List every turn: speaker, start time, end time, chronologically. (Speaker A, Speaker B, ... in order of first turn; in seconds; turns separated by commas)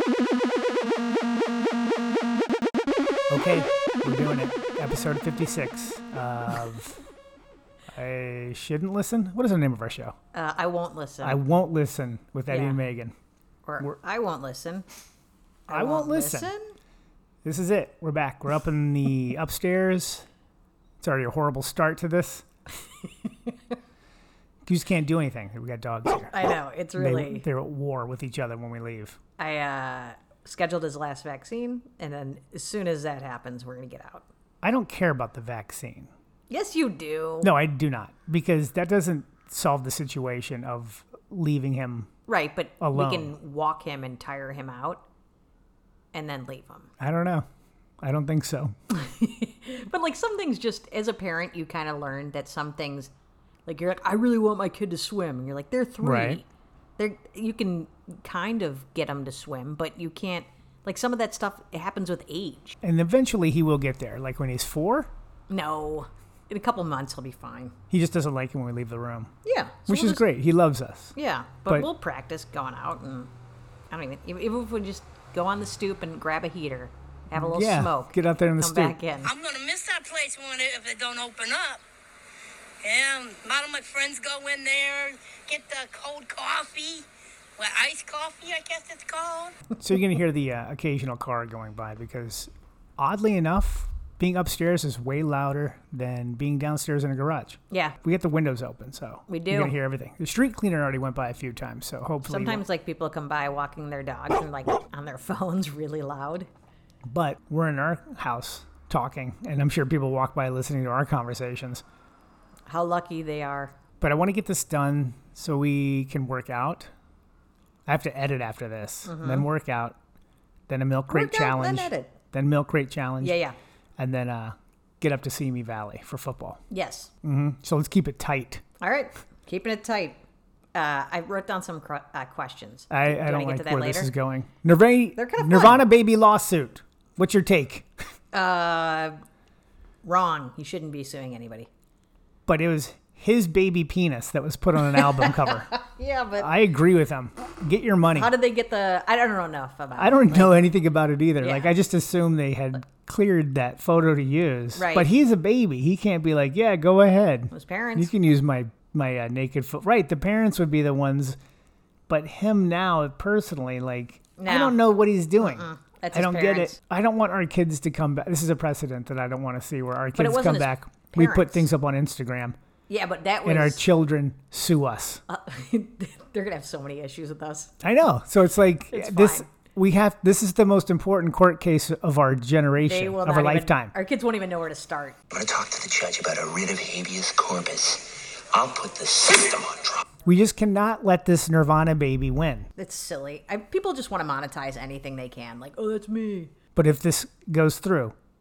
Speaker A: 3.3-7.0, Speaker A: 7.9-10.2, Speaker B: 10.3-11.4, Speaker A: 11.2-13.1, Speaker B: 12.5-12.8, Speaker B: 13.7-14.8, Speaker B: 15.7-16.7, Speaker A: 15.7-16.5, Speaker A: 17.4-20.2, Speaker A: 21.0-22.4, Speaker A: 24.6-29.2, Speaker B: 26.3-27.4, Speaker B: 29.4-34.2, Speaker A: 34.6-36.1, Speaker B: 36.5-37.5, Speaker A: 37.4-42.1, Speaker B: 42.3-45.0, Speaker A: 42.8-43.3, Speaker B: 46.1-46.9, Speaker A: 47.0-47.5, Speaker A: 48.0-48.7, Speaker B: 48.9-53.1, Speaker B: 53.6-56.4, Speaker A: 56.0-56.4, Speaker B: 57.0-62.8, Speaker A: 62.8-65.1, Speaker B: 65.5-67.7, Speaker A: 67.9-69.3, Speaker B: 69.4-70.2, Speaker A: 69.9-71.1, Speaker B: 71.2-73.3, Speaker B: 73.9-79.3, Speaker A: 77.3-79.0, Speaker C: 79.2-81.8, Speaker C: 82.8-87.0, Speaker C: 87.6-89.5, Speaker A: 89.8-102.6, Speaker B: 97.7-98.0, Speaker B: 99.3-99.7, Speaker B: 102.2-106.5, Speaker A: 107.0-111.8, Speaker B: 112.7-113.7, Speaker A: 114.0-116.9, Speaker A: 117.8-120.0, Speaker B: 119.0-119.5, Speaker A: 120.7-123.4, Speaker B: 121.1-122.1, Speaker B: 123.2-123.5, Speaker A: 124.0-126.6, Speaker B: 126.7-127.1, Speaker A: 127.2-128.6, Speaker B: 128.8-130.2, Speaker B: 130.7-134.1, Speaker A: 132.9-137.9, Speaker B: 135.2-135.8, Speaker B: 138.3-139.2, Speaker B: 140.0-141.7, Speaker A: 142.5-145.7, Speaker B: 144.9-146.5, Speaker A: 146.4-148.3, Speaker B: 148.1-150.7, Speaker A: 150.0-161.4, Speaker B: 151.4-151.7, Speaker B: 154.7-155.1, Speaker B: 157.5-158.1, Speaker A: 162.1-172.6, Speaker B: 164.4-164.8, Speaker B: 165.4-166.8, Speaker B: 170.2-171.7, Speaker B: 172.9-173.8, Speaker A: 173.4-175.2, Speaker B: 175.3-177.7, Speaker A: 177.8-183.9, Speaker B: 178.9-179.4, Speaker B: 182.8-185.2, Speaker D: 185.3-190.0, Speaker A: 190.2-192.7, Speaker B: 192.8-196.5, Speaker A: 196.7-198.1